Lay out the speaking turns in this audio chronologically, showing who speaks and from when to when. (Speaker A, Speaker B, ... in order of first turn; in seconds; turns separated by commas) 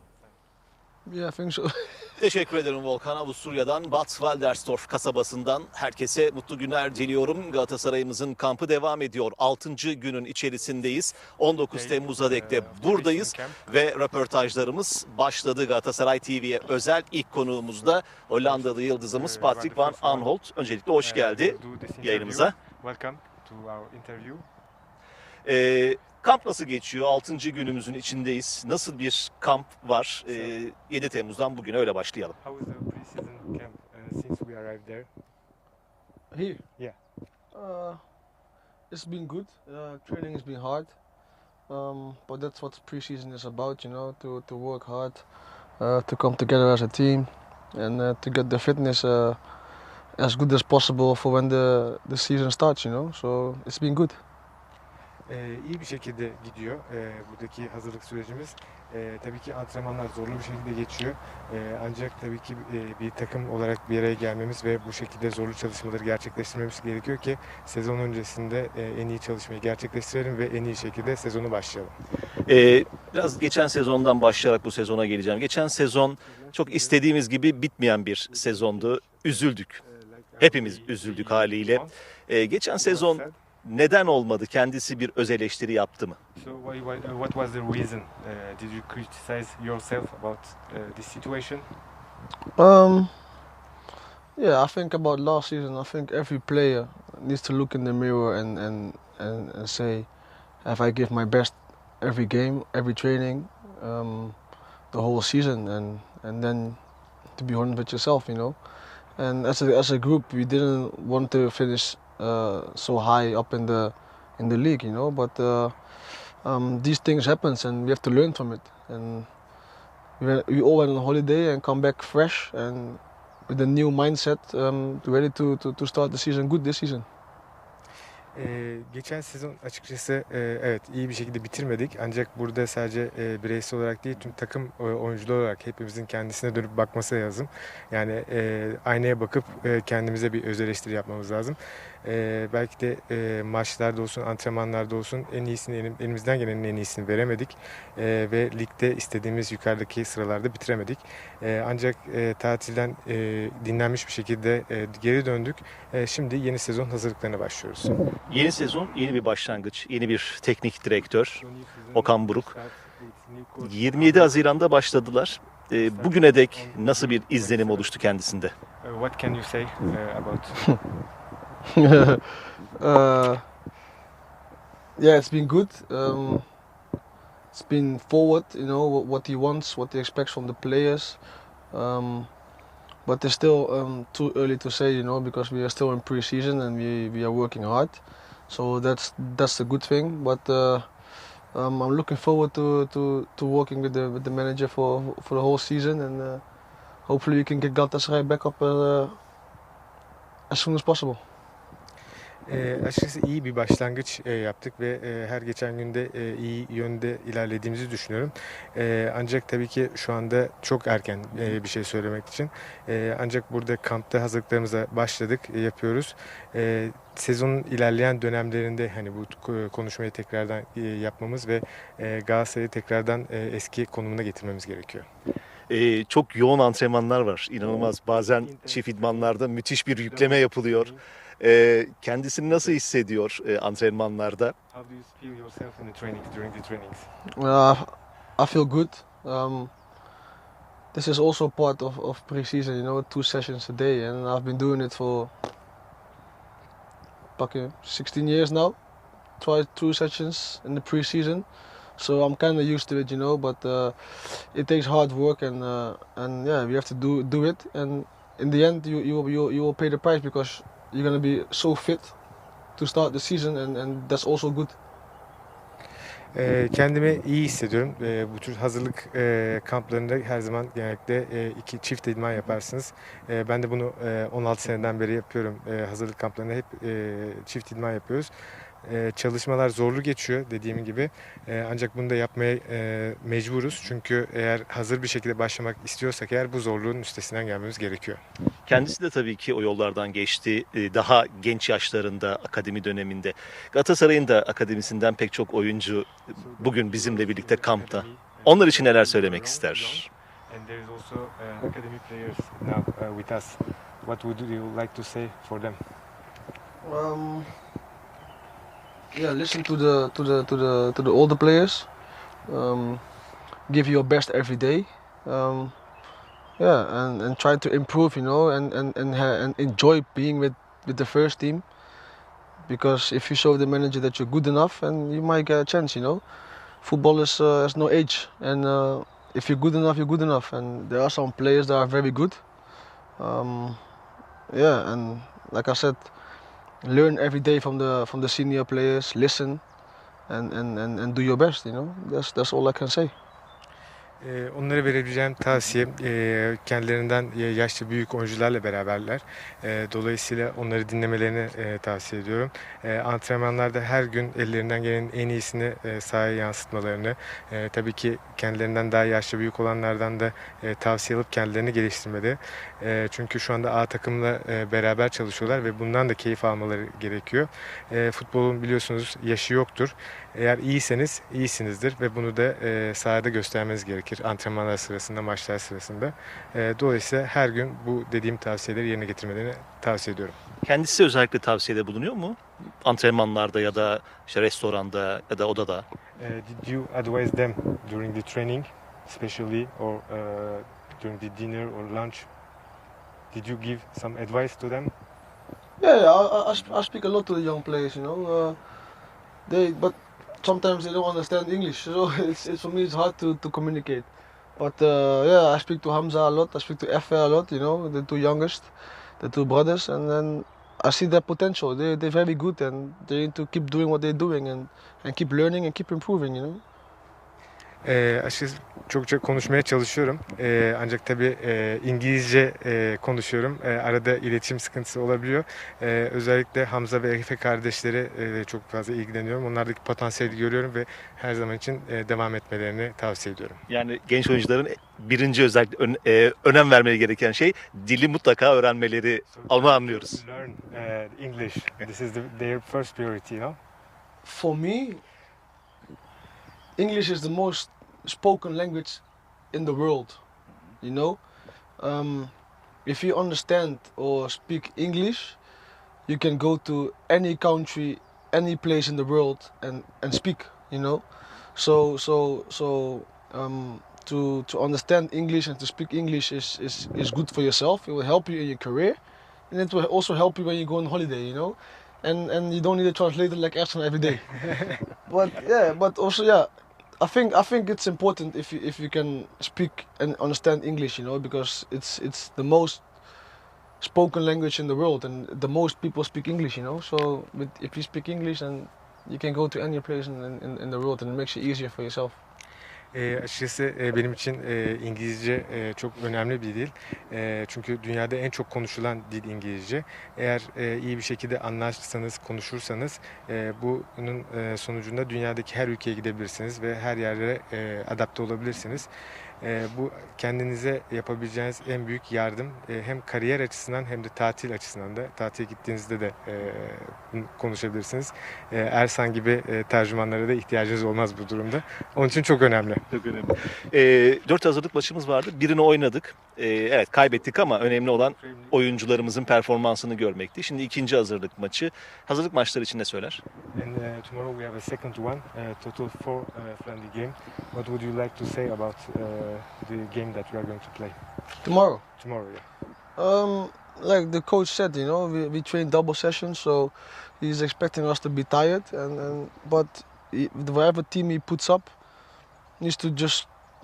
Speaker A: 1.1-2.1, Speaker B: 2.2-22.6, Speaker C: 11.7-13.8, Speaker C: 18.4-20.3, Speaker C: 21.0-24.4, Speaker B: 25.4-32.4, Speaker C: 30.3-30.5, Speaker C: 32.4-35.1, Speaker A: 36.3-36.6, Speaker A: 37.5-38.0, Speaker A: 38.9-40.9, Speaker A: 41.7-45.3, Speaker A: 45.8-49.4, Speaker A: 50.2-54.2, Speaker C: 55.3-71.9, Speaker B: 72.5-79.8, Speaker C: 76.2-77.0, Speaker C: 78.3-81.9, Speaker B: 80.4-86.2, Speaker C: 82.8-83.4, Speaker C: 86.3-91.8, Speaker A: 92.5-93.1, Speaker A: 94.3-100.1, Speaker A: 100.6-104.4, Speaker A: 104.9-106.8, Speaker A: 107.3-108.6, Speaker A: 109.2-115.8, Speaker A: 116.4-119.3, Speaker A: 120.2-127.0, Speaker C: 128.3-158.1, Speaker B: 158.3-162.5, Speaker C: 161.4-164.4, Speaker B: 163.6-168.5, Speaker C: 165.8-168.0, Speaker C: 168.8-170.8, Speaker A: 171.8-173.4, Speaker A: 175.0-176.4, Speaker A: 177.5-182.3, Speaker A: 183.0-190.9, Speaker A: 191.5-196.4, Speaker A: 197.1-199.2, Speaker A: 200.5-201.2, Speaker C: 202.5-225.1, Speaker B: 225.7-234.6, Speaker C: 228.1-231.0, Speaker C: 232.5-232.8, Speaker C: 234.7-237.1, Speaker A: 237.3-239.7, Speaker A: 240.9-245.3, Speaker A: 247.4-248.8, Speaker A: 249.4-262.1, Speaker A: 262.8-264.8, Speaker C: 266.3-278.3, Speaker C: 278.8-288.2, Speaker B: 288.7-300.1, Speaker C: 296.3-305.8, Speaker A: 306.8-307.5, Speaker A: 309.1-311.9, Speaker A: 312.5-313.0, Speaker A: 313.7-315.7, Speaker A: 316.6-321.6, Speaker A: 322.6-326.2, Speaker A: 326.8-332.4, Speaker A: 333.2-333.8, Speaker A: 334.5-336.1, Speaker A: 336.8-339.6, Speaker A: 340.3-343.1, Speaker C: 344.2-380.4, Speaker B: 380.6-385.8, Speaker C: 386.2-392.3, Speaker C: 393.3-394.9, Speaker A: 395.8-398.6, Speaker A: 399.4-416.6, Speaker C: 417.8-433.6, Speaker B: 433.7-440.2, Speaker C: 439.3-443.6, Speaker A: 444.2-445.0, Speaker A: 446.8-450.2, Speaker A: 450.8-451.2, Speaker A: 451.8-455.4, Speaker A: 456.1-469.0, Speaker A: 469.5-474.4, Speaker C: 474.5-474.8, Speaker A: 475.0-482.9, Speaker A: 483.8-492.2, Speaker C: 492.9-508.9, Speaker C: 509.4-522.8, Speaker B: 522.9-533.2, Speaker C: 527.1-529.0, Speaker C: 533.5-541.0, Speaker A: 541.4-541.8, Speaker C: 542.0-542.4, Speaker A: 543.0-551.7, Speaker A: 552.6-553.3